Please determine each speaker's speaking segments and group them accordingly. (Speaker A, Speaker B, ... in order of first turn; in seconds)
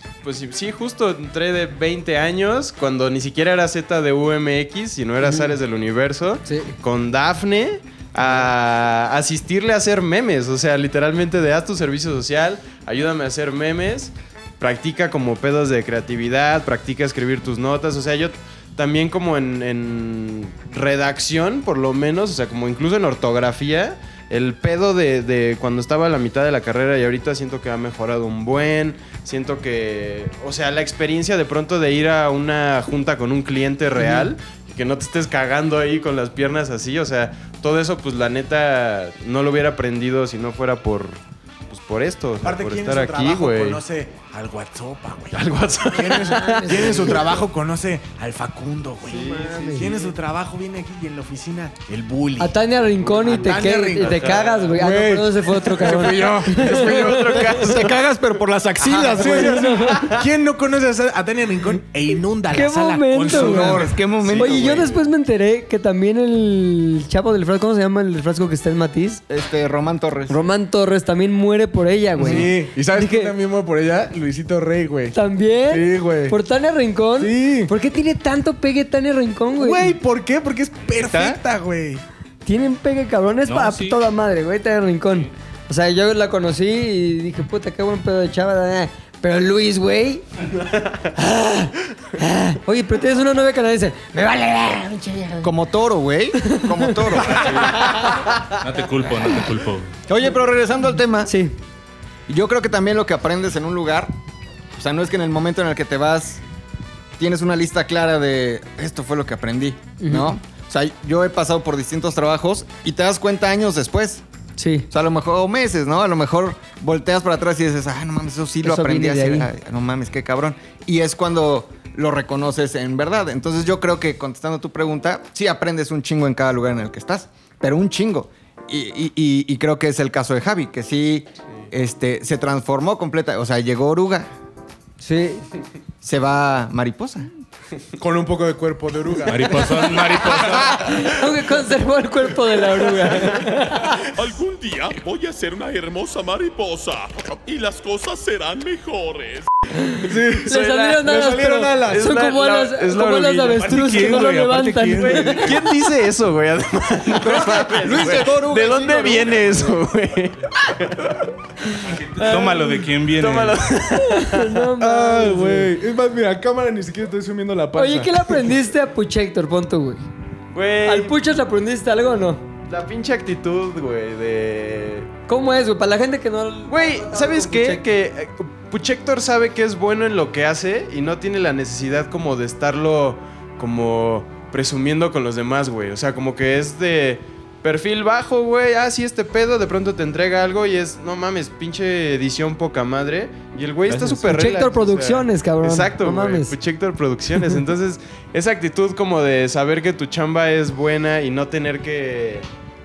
Speaker A: 0.2-41.2, 41.7-43.8, 45.3-47.2, 49.0-50.1, 53.0-54.8, 55.8-58.1, 59.9-60.2, 64.2-64.9, 150.5-151.0, 151.9-153.7, 155.1-161.2, 163.1-164.6, 170.5-171.2, 172.7-175.1, 176.7-202.4
Speaker B: 5.2-5.5, 6.5-6.7, 34.0-34.3, 46.2-47.1, 49.1-49.9, 52.4-57.6, 59.0-60.0, 62.5-69.2, 70.3-73.3, 75.1-79.9, 82.5-90.2, 91.1-95.5, 96.4-98.2, 101.2-101.5, 110.0-110.3, 114.6-114.9, 118.6-119.5, 135.0-135.4, 140.6-144.0, 149.8-155.4, 162.2-162.8, 164.0-165.7, 167.7-170.0, 170.8-172.4, 175.3-177.8, 194.3-196.5
Speaker C: 42.4-52.5, 53.2-54.2, 54.8-64.0, 72.2-76.4, 77.2-77.7, 79.6-82.0, 138.0-140.7, 150.0-152.2, 153.7-155.7, 164.8-168.5
Speaker D: 57.7-59.7, 63.3-65.0, 69.3-70.4, 95.4-97.6, 100.1-101.3, 102.3-104.1, 104.7-106.4, 107.2-114.2, 114.9-134.3, 136.0-137.3, 157.2-159.8
Speaker E: 83.5-84.0, 98.6-99.9, 139.3-141.0, 153.7-154.5, 161.8-163.7, 193.9-194.3
Speaker F: 144.1-149.5